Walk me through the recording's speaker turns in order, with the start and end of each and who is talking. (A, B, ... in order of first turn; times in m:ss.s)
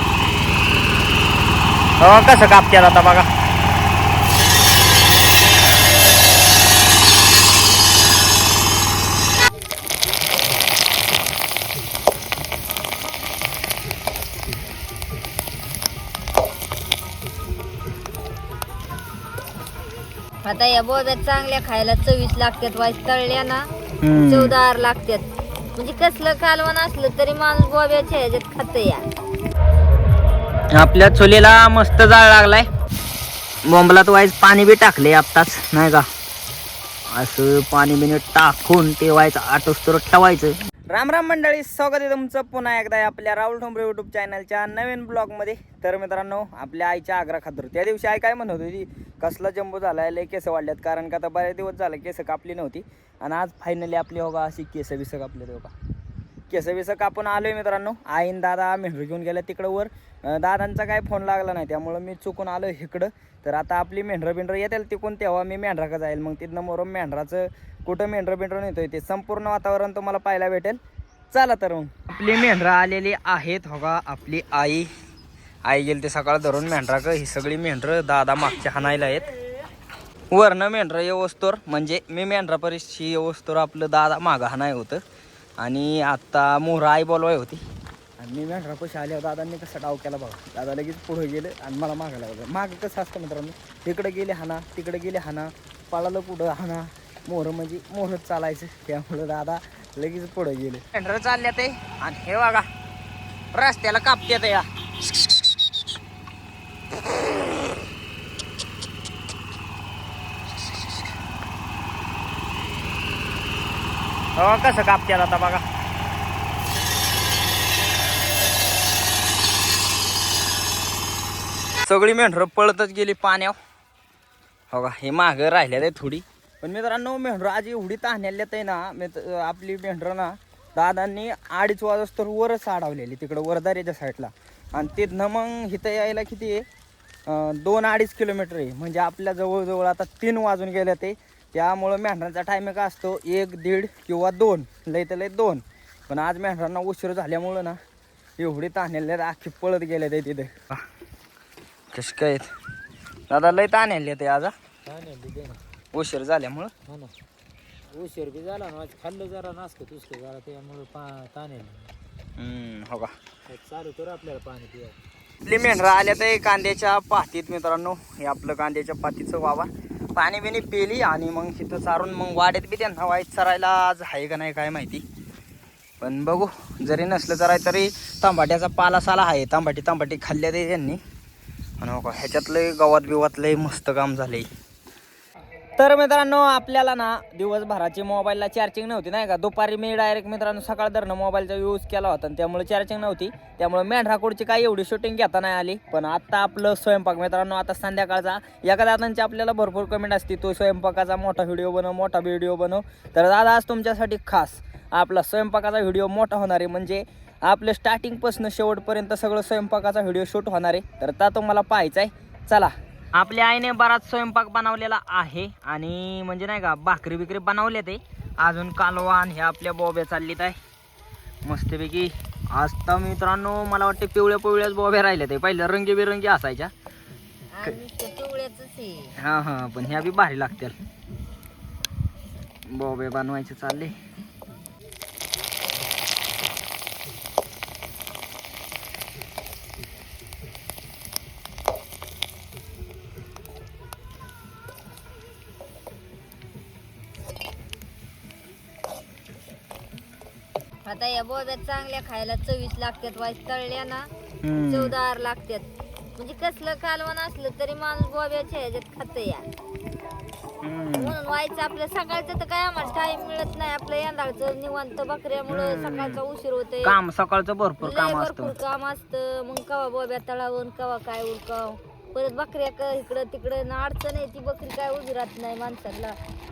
0:02.0-0:03.3 A
0:20.4-0:23.7 B
0:24.0-0:24.5 A
0:24.3-0:29.1 B
0:30.7-0:32.7 A
0:33.7-0:36.1 A
0:37.1-0:55.7 A
0:56.5-1:10.8 A
1:11.3-1:14.9 A
1:15.6-1:19.3 A
1:20.3-1:25.0 A
1:25.6-1:27.6 A
1:28.2-1:42.7 A
1:43.5-1:44.7 A
1:54.4-1:55.6 A
2:01.9-2:03.6 A
2:04.7-2:16.6 A
2:17.3-2:27.8 A
2:28.4-2:30.6 A
2:31.9-2:32.5 A
2:33.3-2:34.5 A
2:34.8-2:35.6 C
2:35.9-2:36.7 A
2:36.9-2:37.1 C
2:37.9-2:41.9 C
2:42.4-2:43.1 A
2:43.5-2:45.0 C
2:45.4-2:55.0 A
2:56.0-3:01.0 A
3:01.8-3:04.5 A
3:05.8-3:40.6 A
3:41.4-3:46.7 A
3:47.5-3:49.2 B
3:49.2-3:50.8 A
3:52.7-3:54.0 A
4:10.8-4:14.1 B
4:14.4-4:15.0 A
4:14.7-4:19.5 B
4:20.6-4:21.2 A
4:21.0-4:27.0 B
4:25.5-4:26.2 A
4:26.8-4:28.5 A
4:27.8-4:36.2 B